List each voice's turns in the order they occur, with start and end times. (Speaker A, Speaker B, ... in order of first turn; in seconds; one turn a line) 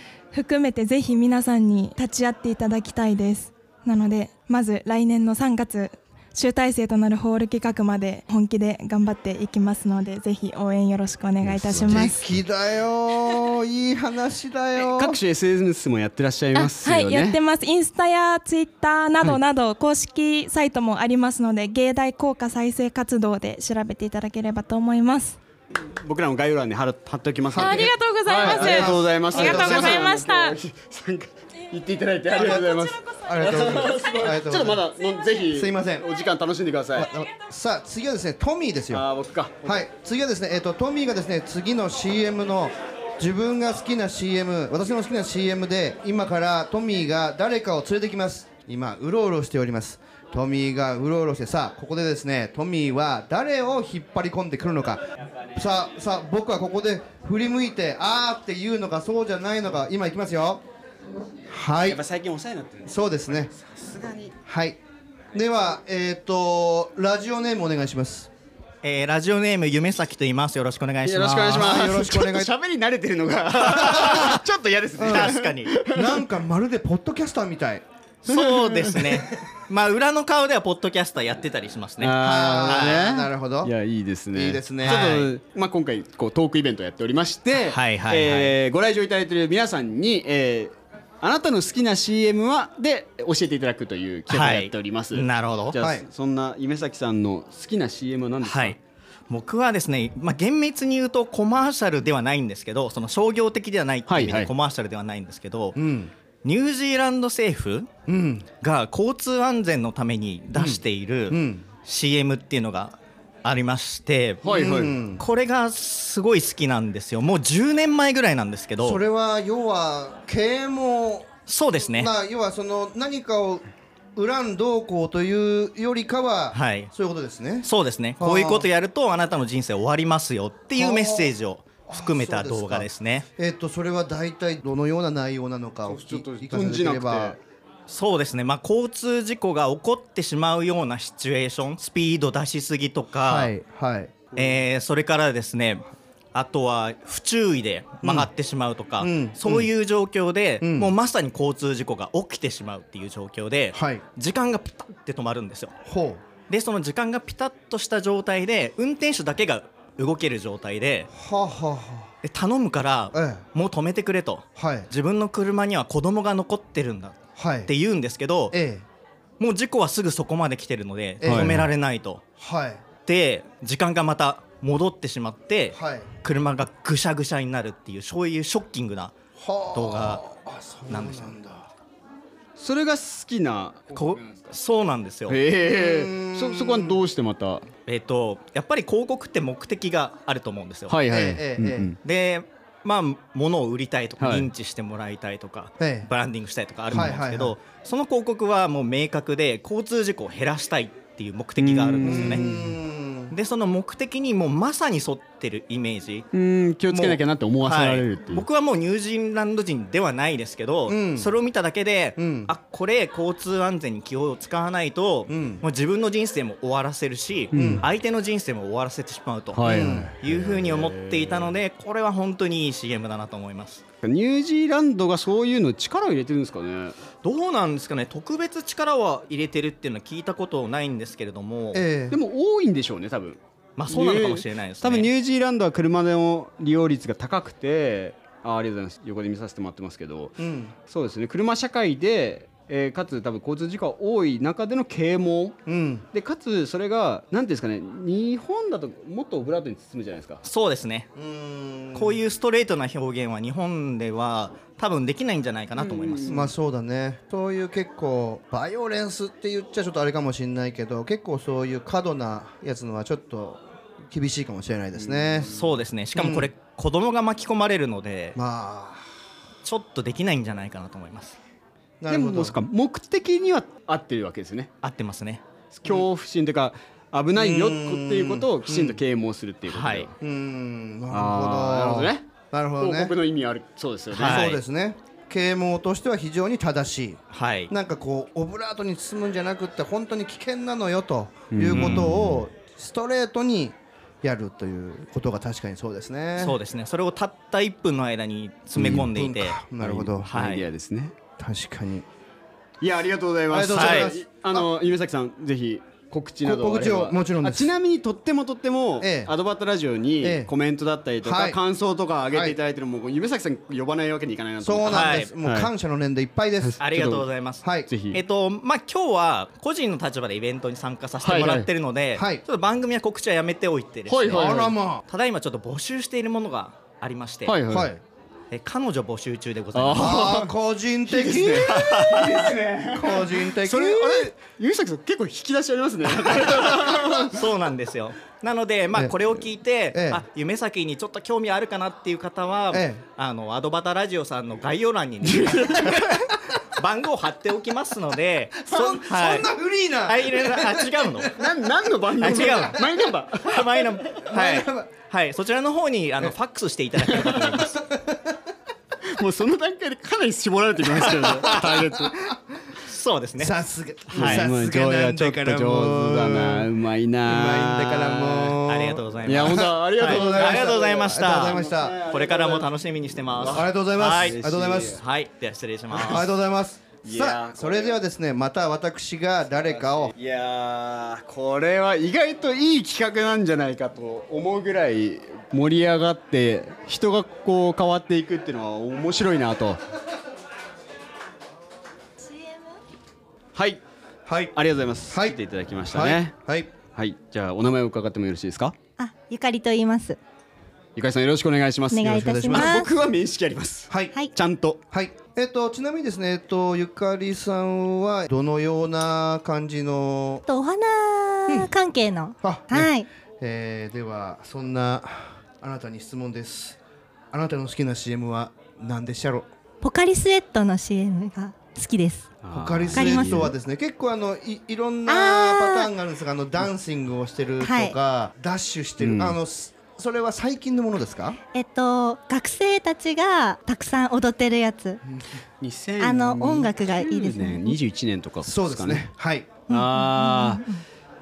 Speaker A: 0.3-12.2
Speaker B: 11.4-12.3
Speaker C: 11.9-15.2
Speaker B: 14.8-17.4
Speaker A: 16.5-25.4
Speaker B: 25.7-37.1
Speaker C: 27.5-30.1
Speaker A: 27.6-30.6
Speaker C: 32.3-34.8
Speaker C: 35.5-36.0
Speaker C: 36.9-39.1
Speaker B: 38.9-39.8
Speaker C: 39.6-60.6
Speaker C: 61.5-62.0
Speaker B: 61.8-64.3
Speaker C: 62.8-63.5
Speaker C: 64.4-64.8
Speaker C: 65.3-68.3
Speaker D: 68.8-72.2
Speaker B: 71.0-76.2
Speaker C: 71.4-72.5
Speaker D: 73.5-75.7
Speaker C: 75.0-77.8
Speaker D: 78.2-83.1
Speaker B: 78.3-79.2
Speaker B: 82.0-98.8
Speaker C: 82.2-83.7
Speaker C: 84.3-85.1
Speaker D: 84.8-85.3
Speaker D: 87.5-88.5
Speaker D: 94.3-95.7
Speaker C: 95.8-96.0
Speaker D: 98.4-98.8
Speaker D: 99.3-105.8
Speaker B: 104.1-104.5
Speaker C: 105.7-106.1
Speaker D: 106.4-107.9
Speaker C: 108.1-108.5
Speaker D: 108.6-114.7
Speaker C: 110.5-111.6
Speaker B: 114.4-115.0
Speaker C: 114.5-115.2
Speaker D: 115.2-119.0
Speaker C: 118.8-121.3
Speaker D: 121.5-122.1
Speaker C: 121.8-123.6
Speaker C: 124.2-127.7
Speaker D: 126.5-126.9
Speaker D: 127.6-133.2
Speaker C: 128.2-128.7
Speaker C: 130.8-131.3
Speaker C: 131.9-137.4
Speaker B: 135.9-137.4
Speaker D: 137.9-143.5
Speaker C: 143.2-144.2
Speaker D: 144.3-155.7
Speaker C: 148.0-148.3
Speaker C: 149.0-149.7
Speaker C: 150.6-150.9
Speaker C: 153.7-154.0
Speaker C: 155.8-156.2
Speaker D: 156.5-161.1
Speaker C: 161.1-162.1
Speaker D: 162.2-168.6
Speaker C: 163.1-163.4
Speaker C: 164.6-164.9
Speaker C: 167.4-167.7
Speaker C: 168.5-168.8
Speaker D: 169.4-172.2
Speaker C: 171.2-171.7
Speaker B: 171.2-171.7
Speaker C: 172.4-172.8
Speaker D: 173.1-179.1
Speaker C: 175.7-176.1
Speaker C: 179.4-181.7
Speaker D: 179.7-180.2
Speaker D: 180.9-181.3
Speaker B: 182.6-184.5
Speaker D: 183.9-185.4
Speaker B: 185.3-187.7
Speaker C: 185.6-187.0
Speaker D: 187.9-190.9
Speaker B: 190.9-192.0
Speaker C: 191.1-191.9
Speaker D: 192.0-202.5
Speaker B: 194.2-194.5
Speaker C: 195.8-196.1
Speaker C: 196.9-197.5
Speaker B: 201.6-202.7
Speaker C: 202.0-203.3
Speaker D: 203.3-206.3
Speaker B: 206.3-208.4
Speaker D: 206.9-223.8
Speaker C: 210.9-211.3
Speaker C: 212.2-212.5
Speaker C: 215.3-215.6
Speaker B: 217.5-217.8
Speaker C: 217.5-217.8
Speaker B: 219.5-221.6
Speaker C: 219.6-220.1
Speaker B: 224.0-227.0
Speaker D: 227.2-231.8
Speaker C: 231.7-232.2
Speaker B: 232.1-233.4
Speaker D: 233.8-235.1
Speaker B: 233.9-240.4
Speaker C: 240.4-240.7
Speaker B: 240.9-245.6
Speaker C: 245.7-246.0
Speaker B: 246.1-250.4
Speaker D: 250.4-251.1
Speaker C: 251.2-252.2
Speaker D: 251.9-256.5
Speaker B: 255.8-256.4
Speaker C: 256.3-265.5
Speaker B: 265.0-265.7
Speaker D: 265.5-268.4
Speaker C: 266.1-266.5
Speaker C: 268.3-269.0
Speaker D: 269.6-271.4
Speaker C: 272.0-272.6
Speaker B: 272.1-274.7
Speaker D: 274.8-275.4
Speaker B: 275.7-280.1
Speaker C: 277.4-279.0
Speaker D: 279.6-280.1
Speaker C: 280.2-283.1
Speaker B: 281.1-282.2
Speaker B: 282.8-284.5
Speaker D: 284.1-284.6
Speaker C: 284.2-296.6
Speaker D: 287.3-287.7
Speaker B: 291.5-292.4
Speaker D: 291.7-292.1
Speaker D: 296.4-299.7
Speaker C: 298.8-300.3
Speaker B: 298.8-299.1
Speaker B: 299.8-301.1
Speaker D: 300.3-300.6
Speaker C: 301.4-302.1
Speaker B: 302.8-315.7
Speaker C: 303.5-304.7
Speaker D: 303.7-304.1
Speaker C: 306.4-307.7
Speaker C: 309.0-309.3
Speaker C: 310.2-310.5
Speaker C: 311.2-311.6
Speaker C: 312.3-312.6
Speaker C: 314.6-316.8
Speaker D: 314.9-315.3
Speaker B: 316.6-317.2
Speaker D: 316.8-327.6
Speaker C: 317.6-317.9
Speaker B: 317.9-318.2
Speaker B: 321.2-321.7
Speaker C: 322.1-322.4
Speaker B: 324.1-324.7
Speaker C: 324.3-325.0
Speaker B: 327.4-327.9
Speaker C: 327.7-328.0
Speaker D: 328.5-330.4
Speaker B: 329.7-330.5
Speaker C: 329.9-332.3
Speaker B: 331.1-337.4
Speaker D: 331.7-332.4
Speaker C: 332.9-334.3
Speaker D: 336.2-349.5
Speaker C: 339.9-340.2
Speaker C: 342.7-343.0
Speaker B: 345.2-346.2
Speaker C: 348.6-351.3
Speaker D: 350.0-351.3
Speaker B: 351.3-354.2
Speaker D: 352.2-357.8
Speaker C: 354.2-354.9
Speaker B: 357.1-357.6
Speaker C: 357.9-358.2
Speaker B: 359.1-362.3
Speaker D: 361.0-361.6
Speaker D: 362.8-363.6
Speaker C: 363.4-366.7
Speaker D: 364.1-364.5
Speaker B: 364.1-368.6
Speaker C: 367.2-372.0
Speaker D: 368.6-374.4
Speaker B: 369.2-375.0
Speaker C: 373.4-375.0
Speaker D: 374.9-376.3
Speaker C: 375.9-380.1
Speaker B: 377.0-377.9
Speaker B: 379.6-389.8
Speaker E: 392.2-392.8
Speaker B: 393.5-393.8
Speaker C: 394.2-394.6
Speaker B: 394.5-396.3
Speaker C: 395.1-396.7
Speaker B: 396.9-398.7
Speaker E: 399.0-400.2
Speaker B: 400.9-404.8
Speaker E: 401.9-402.9
Speaker C: 402.0-402.8
Speaker C: 404.9-410.4
Speaker E: 410.5-413.1
Speaker C: 412.4-416.8
Speaker C: 417.3-419.5
Speaker E: 419.8-422.3
Speaker B: 422.4-423.5
Speaker C: 422.5-431.4
Speaker E: 422.9-423.5
Speaker E: 425.1-425.9
Speaker E: 427.6-427.9
Speaker B: 429.0-429.4
Speaker E: 431.5-435.0
Speaker B: 435.6-439.1
Speaker E: 436.0-437.8
Speaker C: 438.4-439.5
Speaker B: 439.7-440.6
Speaker E: 439.7-440.8